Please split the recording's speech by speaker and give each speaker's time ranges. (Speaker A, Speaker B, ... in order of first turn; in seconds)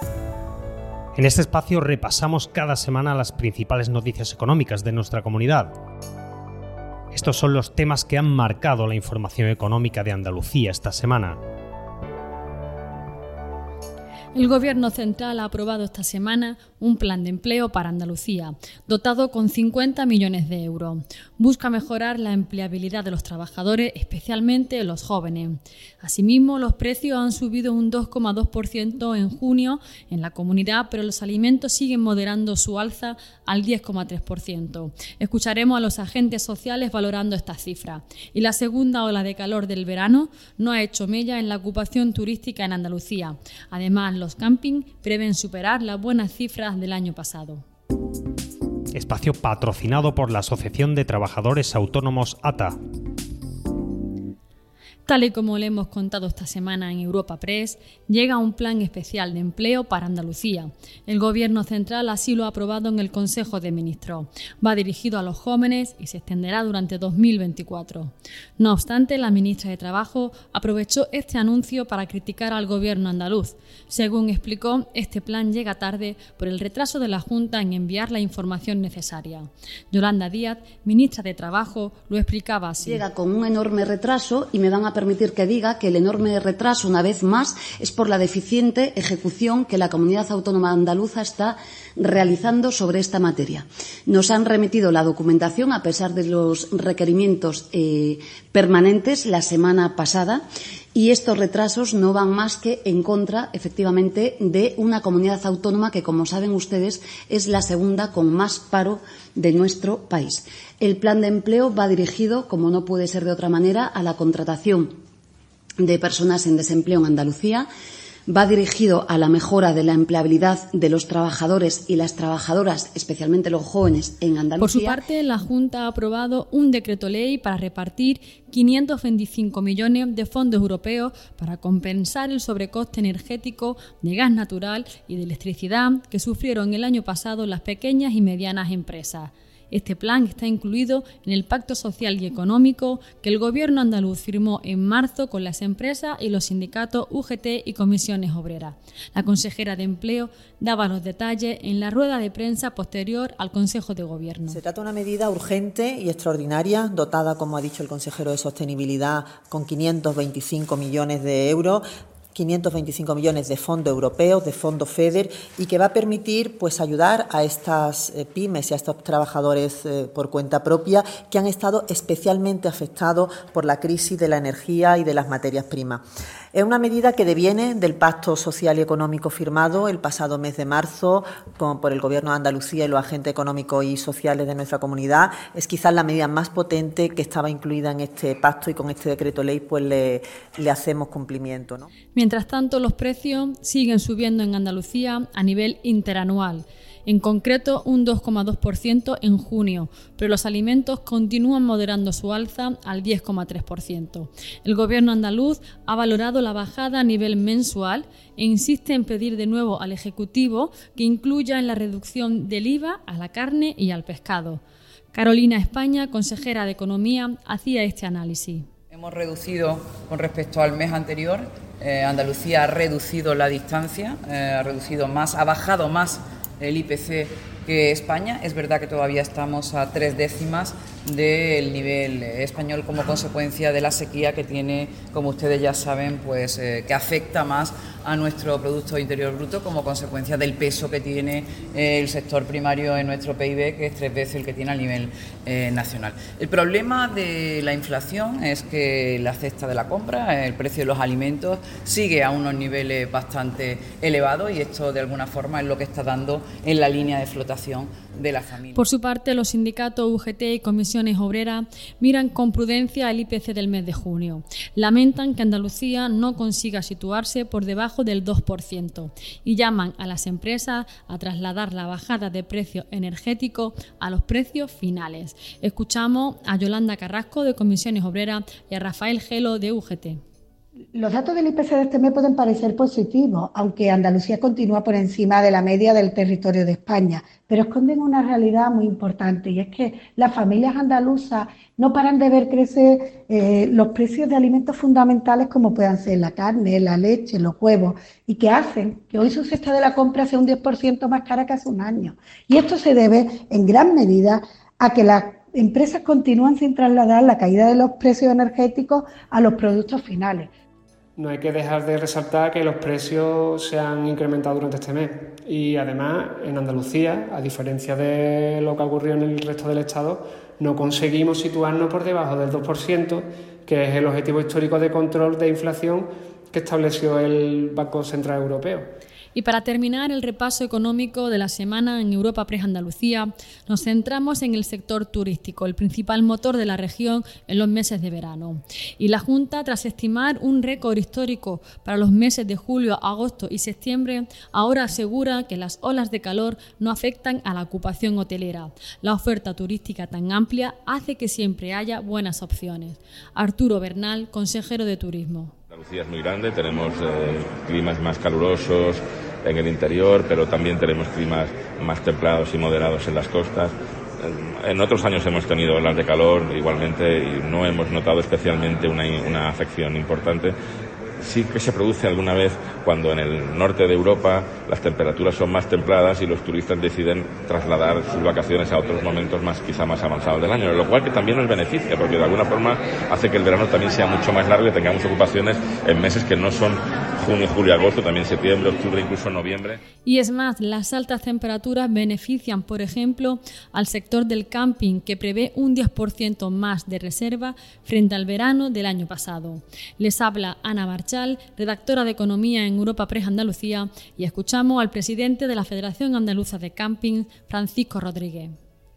Speaker A: 1.1-5.7, 7.1-11.4, 48.9-52.8
Speaker B: 14.3-47.6, 55.0-83.0, 124.6-154.6, 192.1-214.6, 215.1-218.7, 258.7-280.2, 329.3-355.5, 390.0-408.5
Speaker C: 82.8-100.4, 100.9-114.9, 115.8-117.7, 118.3-125.0
Speaker D: 154.5-191.9
Speaker E: 218.9-258.8
Speaker F: 280.9-310.5
Speaker G: 311.2-328.9
Speaker H: 355.7-370.6, 371.2-389.8